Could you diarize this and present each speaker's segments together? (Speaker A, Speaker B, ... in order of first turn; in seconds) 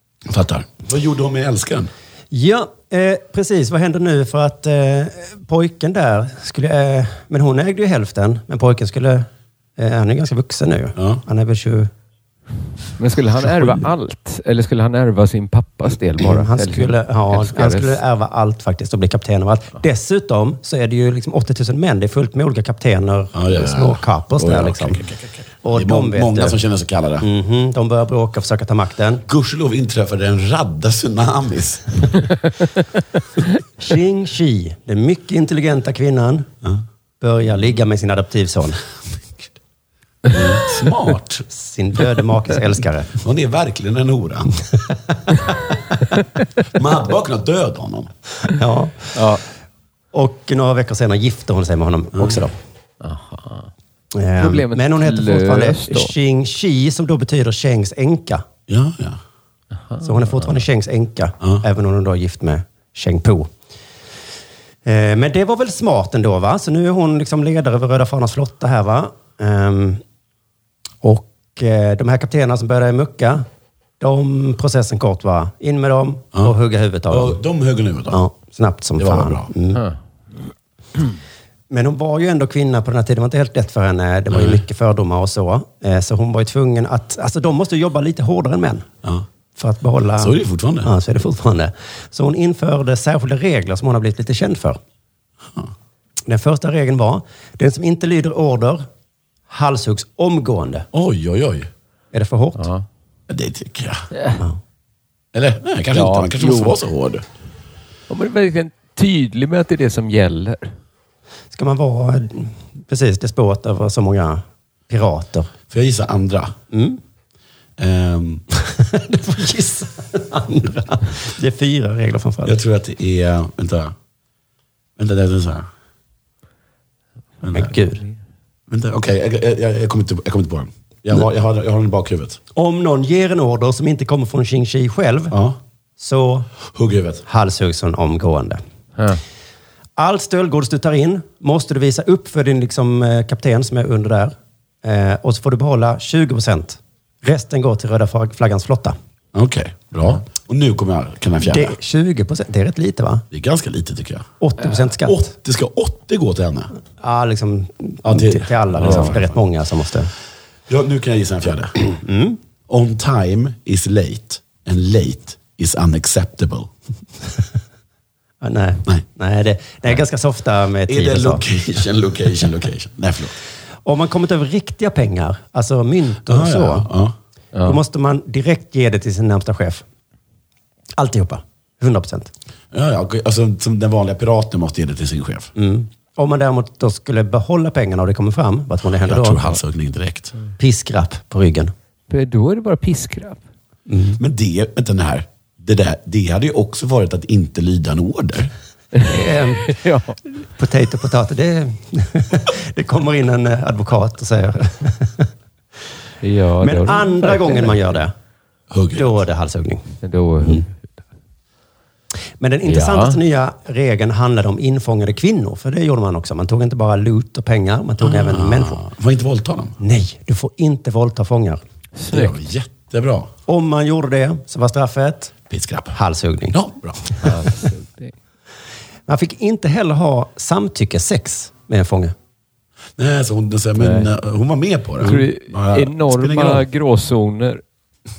Speaker A: 0.3-1.9, 11.0-11.2, 23.4-27.3, 29.3-32.2, 40.3-41.5, 43.2-44.6, 46.7-48.1, 58.7-59.2, 77.1-78.2, 79.0-79.5, 84.3-84.6, 90.2-90.9, 100.9-101.7, 103.3-104.1, 105.3-107.2, 115.7-116.5, 117.8-118.4, 122.5-123.9, 125.0-125.7, 127.4-127.7, 128.7-132.4, 135.3-135.6, 136.7-137.2, 149.3-151.8, 153.3-154.3, 154.9-156.7, 158.0-159.4, 160.7-161.8, 162.7-166.7, 170.9-173.3, 176.3-177.2, 182.7-185.5, 189.0-190.3, 194.2-198.5, 208.7-209.2, 218.0-219.8, 222.1-223.3, 225.5-226.0, 226.5-227.1, 233.0-236.7
Speaker B: 2.3-11.9, 16.2-25.0, 25.6-26.6, 27.2-29.2, 33.8-36.5, 37.2-38.8, 41.5-43.2, 44.9-45.4, 48.5-49.2, 50.1-52.5, 54.1-58.5, 60.0-63.5, 64.8-70.0, 71.0-73.5, 74.0-77.4, 78.1-79.9, 81.7-88.9, 89.5-94.8, 96.3-98.9, 99.5-100.9, 102.1-102.7, 111.5-115.5, 116.7-117.0, 118.6-122.6, 127.5-128.0, 132.5-135.3, 136.0-136.5, 137.3-138.6, 140.0-149.0, 151.4-153.3, 154.4-155.3, 157.0-160.1, 161.9-162.4, 168.4-171.4, 173.8-176.9, 177.6-179.8, 181.0-182.3, 185.6-189.6, 190.6-191.7, 193.9-194.2, 199.0-205.3, 206.6-208.1, 208.9-209.9, 212.4-218.8, 219.8-221.6, 223.5-225.3, 225.9-226.6, 227.1-227.5, 229.1-232.2
Speaker C: 13.0-18.0, 49.1-49.4, 53.0-53.7, 54.4-56.1, 59.9-60.4, 102.6-102.9, 104.1-104.4, 105.9-106.8, 108.1-110.7, 192.1-193.4, 198.9-200.2, 206.2-208.0, 210.0-210.8, 212.7-213.2, 222.0-222.4, 227.2-228.1, 233.8-234.1, 235.0-237.6